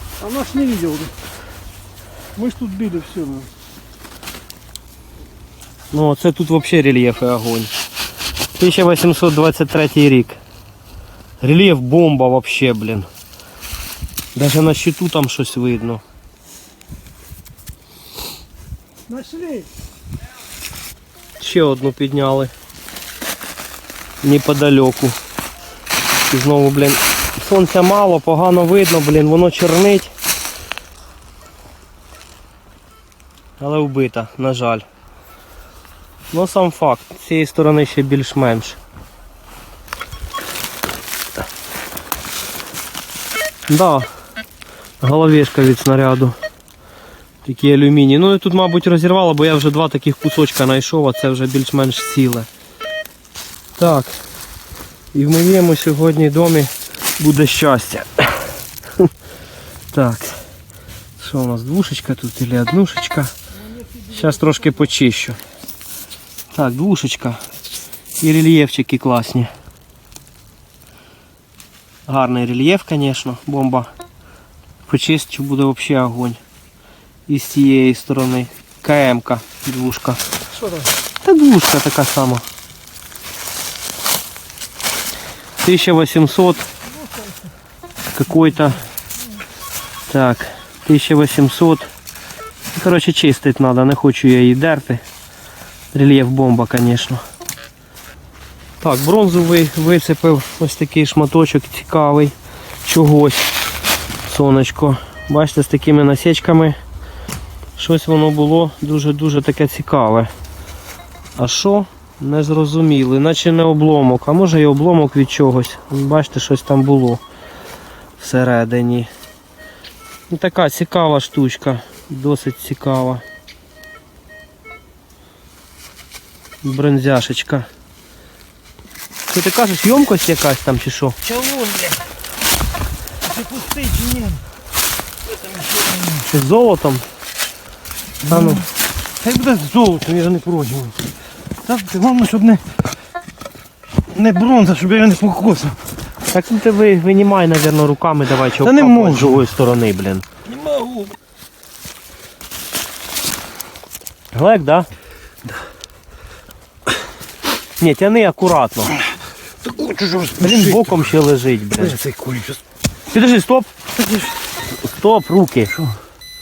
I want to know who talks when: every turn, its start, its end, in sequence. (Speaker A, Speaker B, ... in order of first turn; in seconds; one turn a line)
Speaker A: 0.2-1.1
Speaker A: 2.4-3.5
Speaker B: 5.9-7.7
Speaker B: 8.6-10.4
Speaker B: 11.4-13.1
Speaker B: 14.3-16.0
Speaker A: 19.1-19.7
Speaker B: 21.4-22.5
Speaker B: 24.2-25.2
Speaker B: 26.3-30.1
Speaker B: 33.6-34.8
Speaker B: 36.3-38.8
Speaker B: 43.7-44.1
Speaker B: 45.0-46.4
Speaker B: 47.4-52.5
Speaker B: 53.8-54.1
Speaker B: 55.1-59.1
Speaker B: 59.9-60.4
Speaker B: 61.2-63.3
Speaker B: 64.1-65.4
Speaker B: 66.5-67.4
Speaker B: 68.2-69.5
Speaker B: 72.1-73.9
Speaker B: 74.9-76.4
Speaker B: 77.3-80.2
Speaker B: 81.2-82.5
Speaker B: 85.6-86.7
Speaker B: 88.2-88.8
Speaker B: 90.1-91.9
Speaker B: 92.7-95.0
Speaker B: 95.9-97.2
Speaker B: 98.8-103.5
Speaker B: 104.3-106.8
Speaker B: 107.8-110.3
Speaker B: 111.4-117.2
Speaker B: 118.2-119.1
Speaker B: 120.3-123.2
Speaker B: 126.6-127.7
Speaker B: 129.3-131.2
Speaker C: 131.2-132.0
Speaker C: 133.2-134.4
Speaker C: 135.3-136.3
Speaker B: 136.2-137.1
Speaker C: 138.2-141.0
Speaker B: 138.3-138.6
Speaker C: 141.6-142.7
Speaker C: 144.1-145.8
Speaker B: 146.3-150.2
Speaker C: 148.5-149.5
Speaker C: 150.5-151.1
Speaker B: 154.3-154.9
Speaker B: 157.8-158.9
Speaker C: 159.6-161.2
Speaker B: 160.4-162.0
Speaker C: 161.8-162.6
Speaker B: 163.1-163.7
Speaker C: 164.0-164.4
Speaker B: 164.7-165.9